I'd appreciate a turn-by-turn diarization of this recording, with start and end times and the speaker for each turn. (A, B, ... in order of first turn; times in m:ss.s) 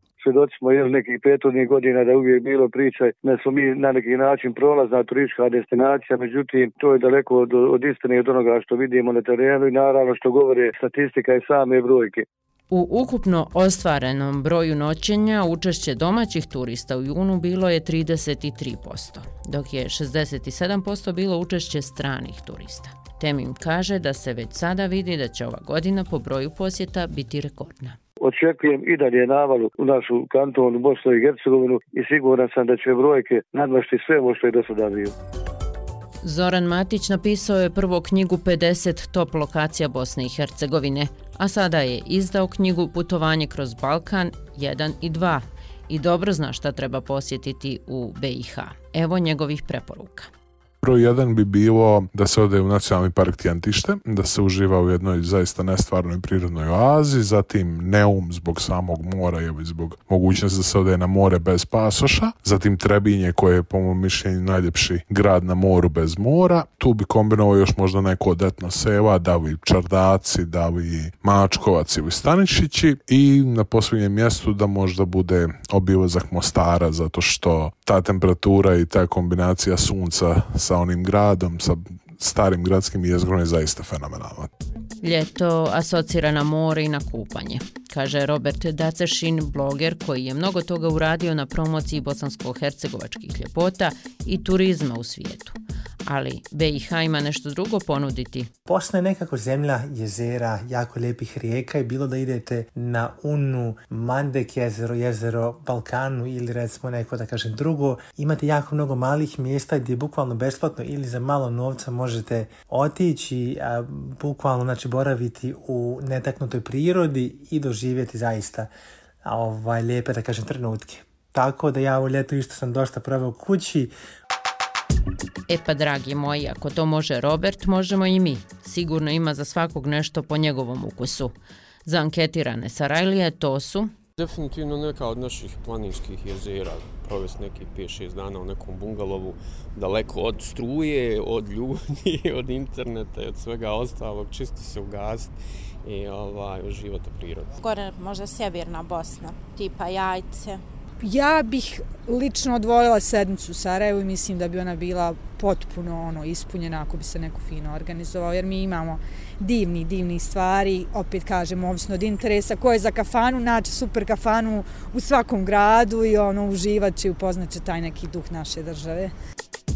0:00.2-0:12.2 A
0:12.7-0:28.0 B
0:28.2-0:35.1 A
0:36.2-0:50.3 B
0:50.8-1:24.5 C
1:25.0-1:35.6 B
1:36.1-1:38.5 B
1:38.7-1:58.7 D
1:59.2-2:03.9 D
2:05.5-2:11.3 B
2:11.8-2:13.9 B
2:14.2-2:25.3 E
2:25.8-2:27.6 E
2:27.6-2:30.6 F
2:31.0-2:49.1 G